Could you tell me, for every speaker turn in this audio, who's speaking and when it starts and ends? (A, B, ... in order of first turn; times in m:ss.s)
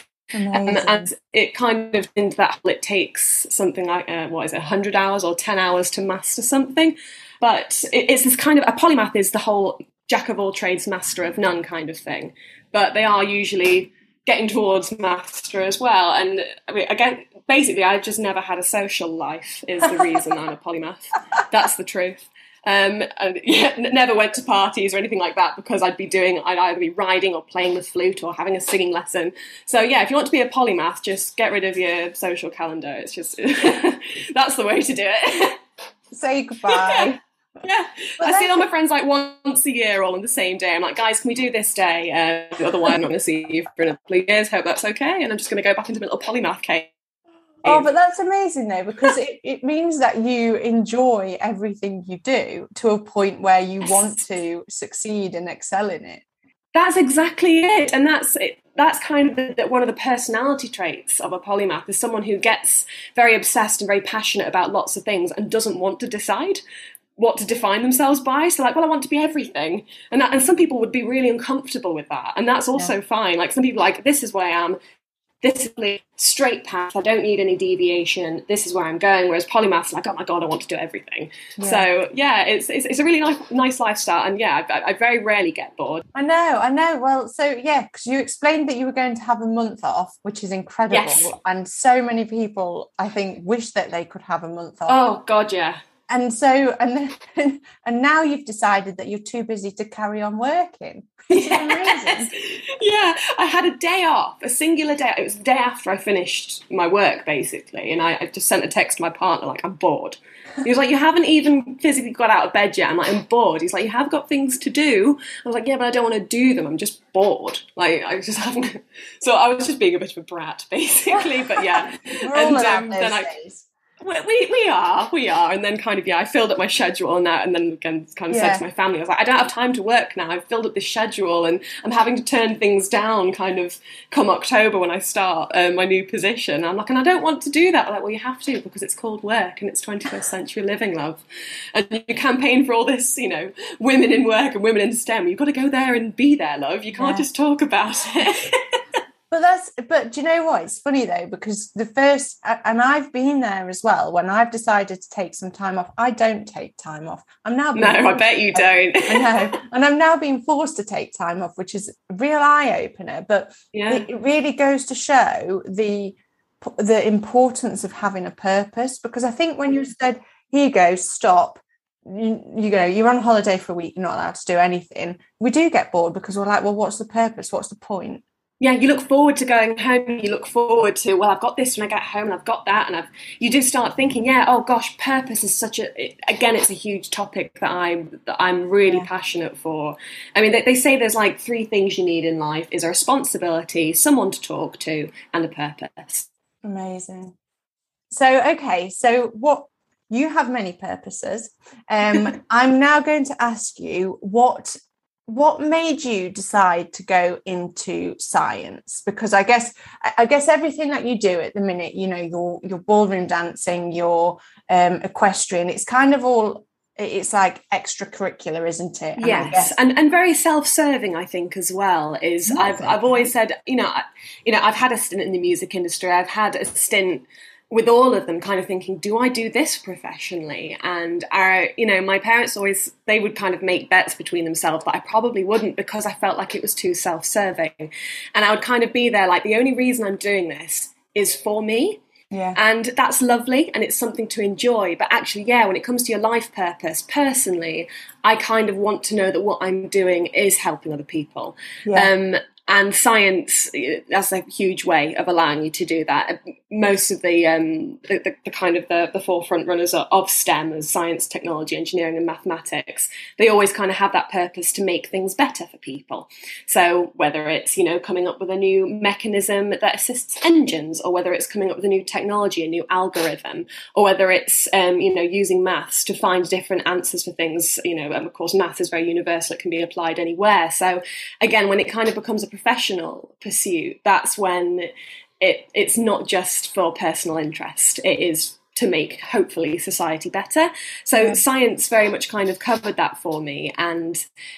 0:00.3-0:01.1 A
0:00.5-0:35.6 B
0:36.1-0:37.2 A
0:36.7-0:46.9 B
0:38.2-0:38.7 A
0:47.7-0:56.2 A
0:56.8-1:06.6 B
1:07.2-1:14.8 B
1:15.4-1:26.0 B
1:21.6-1:21.9 A
1:26.1-1:35.0 A
1:30.9-1:31.3 B
1:34.9-1:35.8 B
1:36.1-1:42.3 A
1:41.3-2:03.3 B
2:01.6-2:03.7 A
2:04.0-2:21.2 B
2:08.3-2:08.6 A
2:21.7-2:28.8 B
2:27.0-2:27.3 A
2:29.3-2:58.2 A
2:37.8-2:39.6 B
2:43.7-2:44.0 B
2:58.6-3:16.3 B
3:16.6-3:17.3 A
3:18.1-3:24.8 A
3:25.3-3:39.8 A
3:39.2-4:02.0 B
3:42.5-3:43.3 A
4:02.3-4:02.6 A
4:02.6-4:44.9 B
4:45.4-4:54.2 B